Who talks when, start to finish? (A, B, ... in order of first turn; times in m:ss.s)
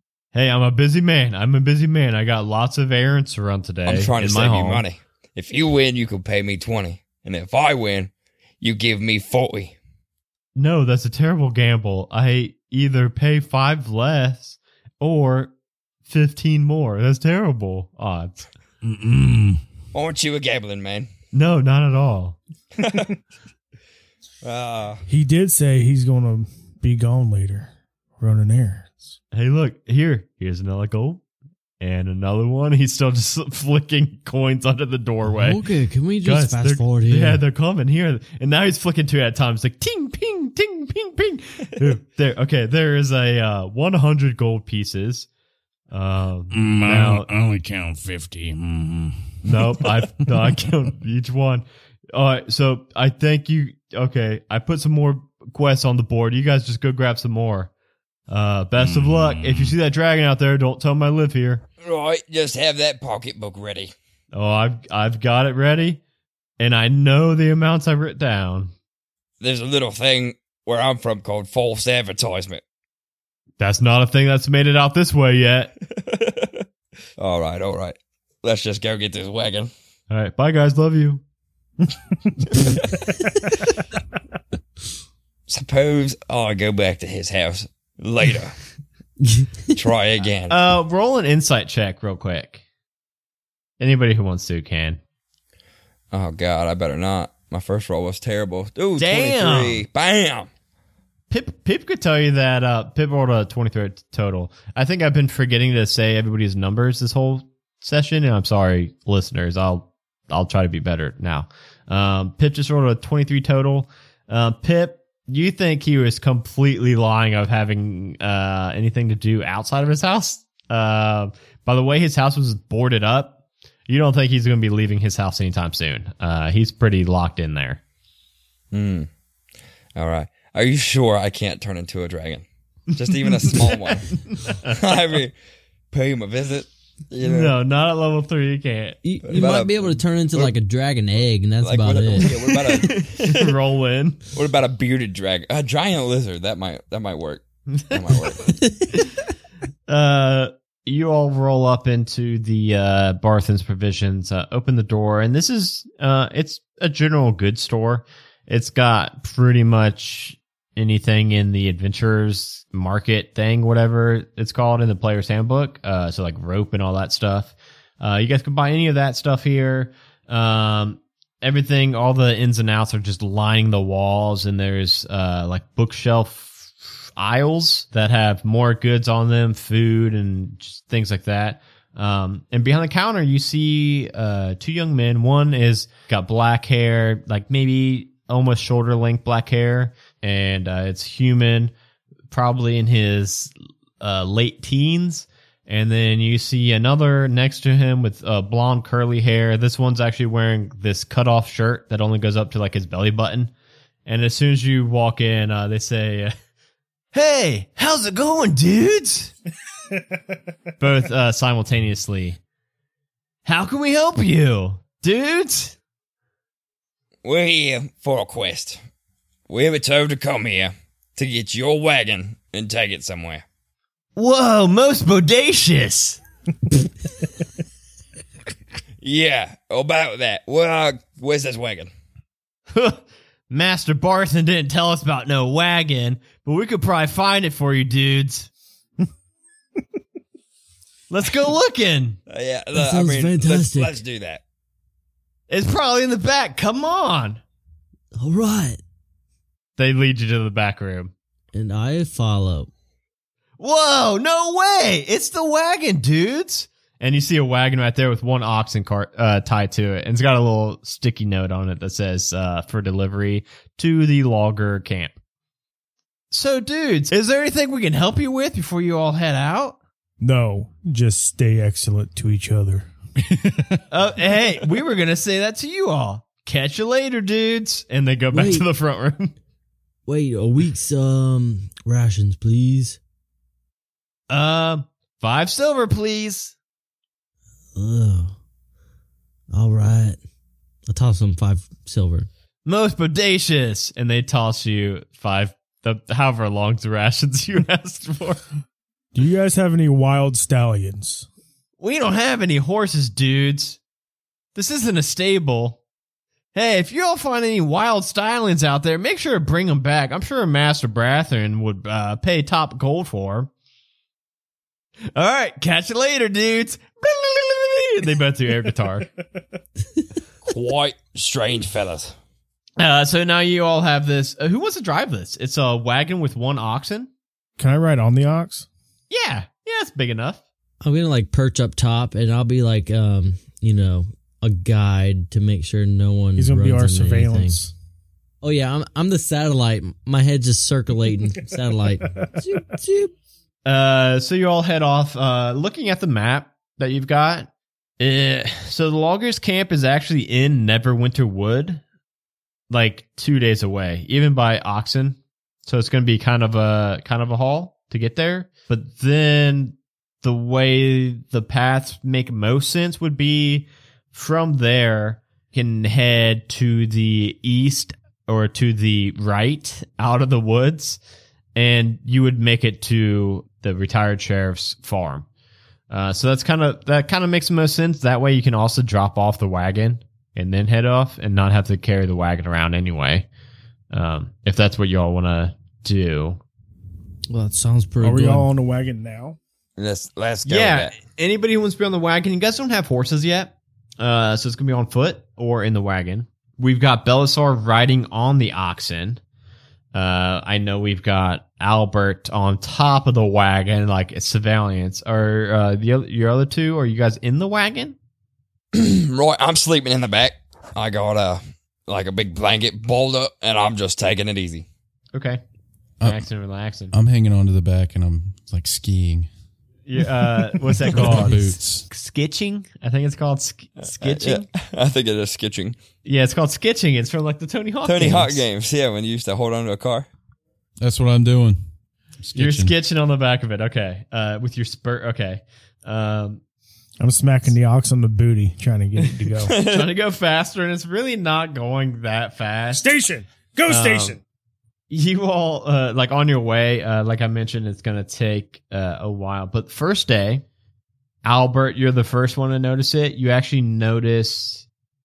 0:00.3-0:04.8 A
0:03.9-0:09.8 B
0:10.6-0:15.5 A
0:16.1-0:18.4 A
0:18.8-0:19.6 C
0:19.9-0:21.1 B
0:21.3-0:22.4 A
0:22.8-0:23.2 B
0:24.4-0:25.0 B
0:25.1-0:29.1 D
0:29.3-0:31.2 A
0:31.8-0:35.6 A
0:35.3-0:37.4 E
0:36.2-0:45.3 A
0:45.9-0:47.3 A
0:46.5-0:49.9 C
0:49.4-0:57.7 A
0:58.3-1:01.6 A
0:58.8-0:59.7 C
1:01.8-1:03.9 B
1:04.3-1:06.0 A
1:06.6-1:08.7 A
1:09.4-1:12.6 B
1:13.6-1:15.7 A
1:16.1-1:16.6 B
1:17.2-1:19.7 B
1:20.1-1:21.2 A
1:25.5-1:28.6 B
1:29.2-1:29.7 E
1:29.7-1:30.6 B
1:30.5-1:32.6 A
1:33.8-1:35.0 A
1:36.1-1:40.5 B
1:39.0-1:39.8 A
1:41.3-2:07.8 A
2:08.7-2:09.1 B
2:10.0-2:14.2 B
2:13.2-2:14.8 A
2:14.7-2:15.3 B
2:15.9-2:17.6 B
2:17.2-2:19.4 A
2:19.0-2:22.3 E
2:19.3-2:20.5 B
2:21.6-2:23.5 B
2:22.2-2:24.2 A
2:24.3-2:28.6 B
2:27.7-2:28.2 A
2:29.9-3:11.7 A
3:12.3-3:23.5 A
3:24.1-3:26.3 A
3:27.1-3:29.3 A
3:30.8-3:32.4 A
3:33.4-3:35.8 A
3:37.2-3:38.8 B
3:39.5-3:43.4 B
3:44.2-3:46.2 A
3:49.0-3:51.9 B
3:52.7-3:58.5 A
4:01.1-4:02.2 A
4:02.3-4:04.4 B
4:02.7-4:04.0 E
4:05.5-4:07.4 A
4:08.1-4:08.8 E
4:09.8-4:11.1 A
4:11.5-4:12.7 E
4:13.6-4:25.1 A
4:26.3-4:29.8 A
4:30.2-4:32.9 D
4:33.4-4:33.6 C
4:33.9-4:39.3 A
4:38.3-4:38.7 E
4:40.1-4:43.0 E
4:44.3-4:46.6 A
4:47.8-4:48.4 E
4:49.5-4:50.2 E
4:50.9-4:52.3 E
4:52.7-4:58.4 A
4:59.2-5:01.3 D
5:01.8-5:03.8 A
5:04.6-5:05.8 A
5:06.5-5:13.5 A
5:15.2-5:19.1 A
5:20.5-5:22.1 B
5:22.8-5:27.1 A
5:27.6-5:28.7 D
5:29.1-5:30.4 A
5:30.8-5:37.6 E
5:36.4-5:37.7 D
5:38.4-5:43.1 E
5:43.6-5:47.5 A
5:48.0-5:51.8 A
5:52.7-6:11.0 A
6:11.6-6:15.3 A
6:15.9-6:23.3 A
6:23.9-6:26.4 A
6:27.3-6:28.5 E
6:28.0-6:29.4 D
6:29.8-6:31.0 B
6:30.4-6:39.2 A
6:39.9-6:48.0 A
6:48.7-6:54.7 B
6:55.1-6:55.4 A
6:56.0-6:56.9 A
6:56.9-6:59.3 F
6:59.9-7:04.5 A
7:00.6-7:01.9 F
7:03.8-7:05.8 B
7:06.0-7:08.5 A
7:07.8-7:10.1 B
7:10.8-7:11.6 F
7:12.2-7:12.8 F
7:12.4-7:16.4 A
7:17.0-7:19.5 D
7:19.5-7:19.9 B
7:19.5-7:22.9 A
7:22.7-7:24.2 D
7:23.7-7:24.2 A
7:24.9-7:30.4 A
7:31.2-7:34.7 A